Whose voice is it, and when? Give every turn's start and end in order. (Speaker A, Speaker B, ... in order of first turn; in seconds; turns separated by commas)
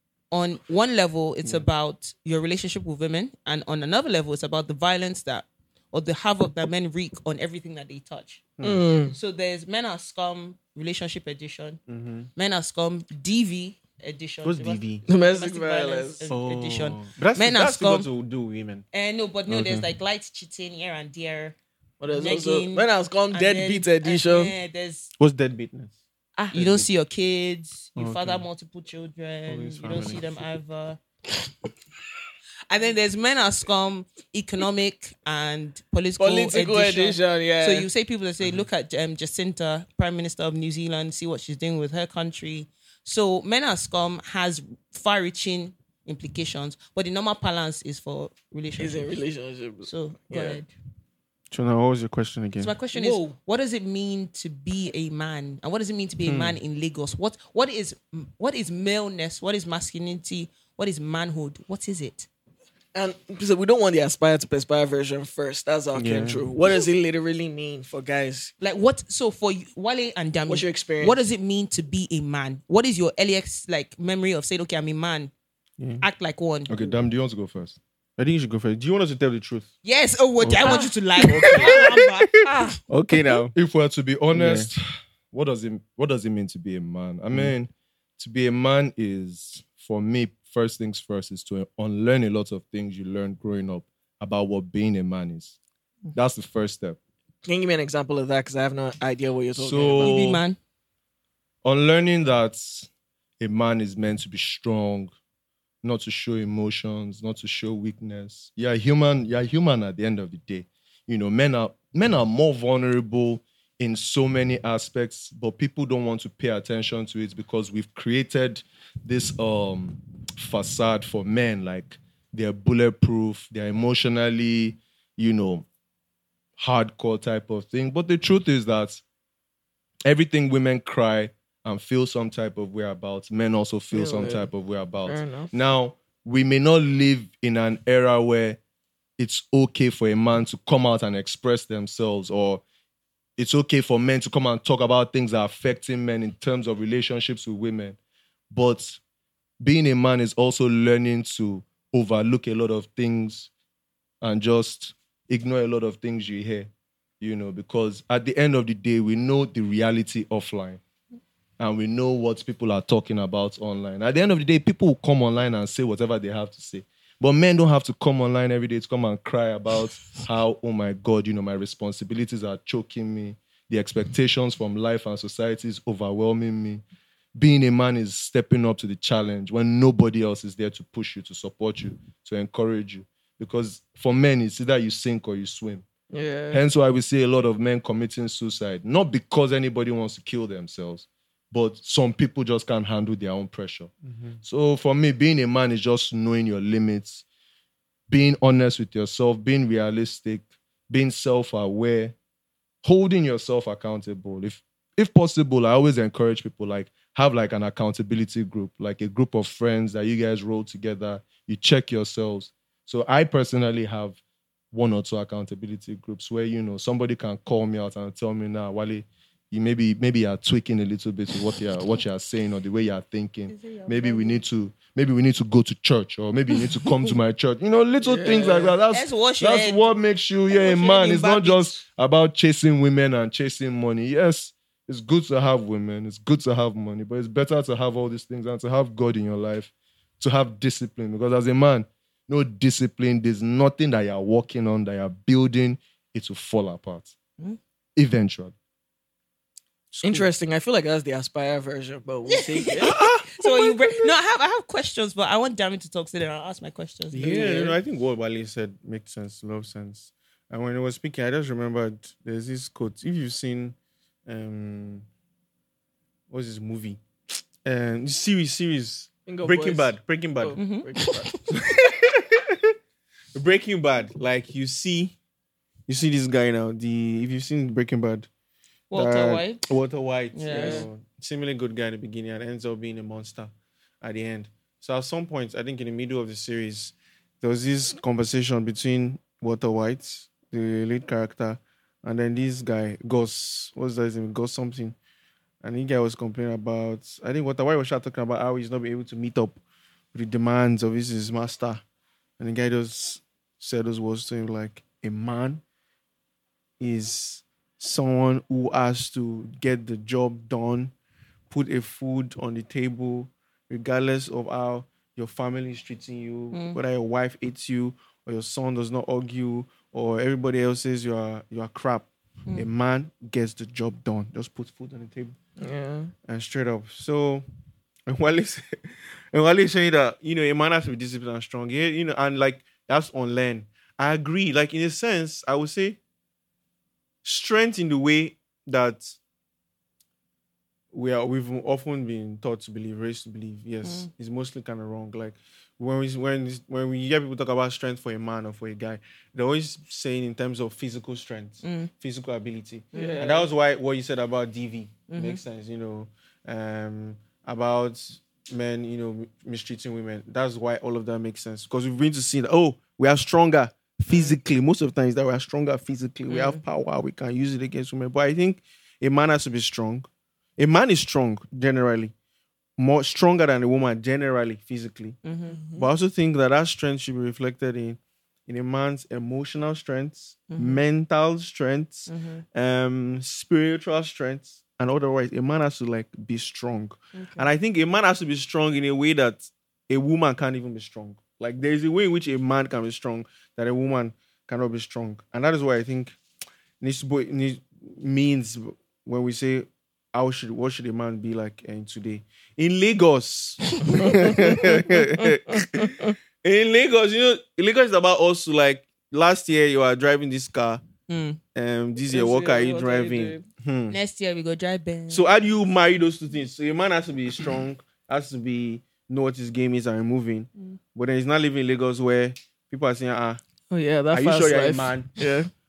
Speaker A: 0.3-8.4, Speaker B: 8.6-8.8, Speaker C: 8.6-9.1, Speaker A: 9.1-11.8, Speaker B: 11.9-12.3, Speaker A: 12.3-18.1, Speaker B: 14.4-15.0, Speaker C: 15.1-16.2, Speaker B: 16.3-18.9, Speaker A: 18.9-21.6, Speaker B: 19.5-19.9, Speaker C: 22.0-24.5, Speaker A: 22.1-25.1, Speaker B: 25.2-26.0, Speaker A: 26.4-31.0, Speaker B: 26.5-26.9, Speaker B: 27.9-28.4, Speaker B: 29.5-30.4, Speaker A: 32.7-49.1, Speaker C: 36.2-37.9, Speaker C: 48.8-50.6, Speaker A: 49.8-50.7, Speaker B: 51.5-52.8, Speaker A: 52.6-62.3, Speaker C: 52.9-53.2, Speaker B: 56.2-56.6, Speaker C: 62.9-68.5, Speaker B: 65.9-66.5, Speaker A: 68.6-75.3, Speaker C: 70.5-71.2, Speaker B: 75.8-76.0, Speaker A: 76.0-76.7, Speaker D: 76.7-77.8, Speaker B: 78.2-79.7, Speaker A: 79.8-82.8, Speaker B: 80.4-83.5, Speaker D: 81.3-81.8, Speaker D: 83.5-95.6, Speaker B: 84.3-84.7, Speaker D: 96.1-97.0, Speaker C: 97.4-100.2, Speaker D: 99.5-100.4, Speaker A: 100.0-100.6, Speaker D: 101.6-102.9, Speaker D: 103.4-105.1, Speaker D: 105.8-125.7, Speaker D: 126.6-129.0, Speaker D: 130.0-138.6, Speaker C: 133.9-134.5, Speaker C: 135.0-135.5, Speaker D: 139.2-142.6, Speaker D: 143.4-148.0, Speaker D: 148.5-149.0, Speaker D: 149.6-153.5, Speaker D: 154.2-160.8, Speaker D: 161.6-176.8, Speaker D: 177.3-185.8, Speaker C: 186.1-186.6, Speaker D: 186.5-193.9, Speaker B: 194.1-194.4, Speaker D: 194.4-197.2, Speaker D: 198.1-202.1, Speaker D: 202.8-214.2, Speaker D: 214.7-247.1, Speaker A: 223.5-224.4, Speaker C: 228.0-228.8, Speaker A: 228.9-229.9, Speaker A: 230.5-231.8, Speaker D: 247.9-248.5, Speaker C: 250.0-253.0, Speaker A: 252.3-257.2, Speaker B: 252.9-253.5, Speaker B: 257.1-265.1, Speaker C: 257.2-257.8, Speaker B: 266.3-267.0, Speaker B: 267.6-270.6, Speaker C: 269.3-271.3, Speaker A: 270.5-271.4, Speaker B: 271.5-272.5, Speaker B: 273.3-275.1, Speaker B: 275.9-278.3, Speaker A: 278.9-279.6, Speaker B: 278.9-294.9, Speaker A: 280.3-280.9, Speaker C: 280.5-280.9, Speaker B: 295.6-299.6, Speaker B: 300.1-301.8, Speaker B: 302.4-305.6, Speaker B: 306.8-310.9, Speaker B: 311.5-325.4, Speaker A: 316.5-316.8, Speaker C: 325.6-326.1, Speaker B: 326.2-327.4, Speaker B: 328.1-336.0, Speaker B: 337.2-339.2, Speaker B: 340.9-372.1, Speaker A: 343.8-344.1, Speaker A: 351.6-351.9, Speaker A: 352.9-353.2, Speaker C: 352.9-353.5, Speaker A: 355.1-355.4, Speaker A: 364.1-364.4, Speaker A: 366.3-366.6, Speaker B: 372.8-375.2, Speaker A: 375.2-375.6, Speaker C: 375.5-375.9, Speaker B: 375.8-396.1, Speaker A: 380.5-380.8, Speaker A: 382.1-382.4, Speaker A: 387.1-387.5, Speaker B: 396.8-410.8, Speaker C: 403.9-405.0, Speaker C: 405.8-406.1, Speaker A: 411.1-411.4, Speaker B: 411.5-414.0, Speaker C: 412.1-413.4, Speaker A: 413.9-415.3, Speaker B: 415.1-423.4, Speaker C: 423.7-425.5, Speaker B: 424.1-425.1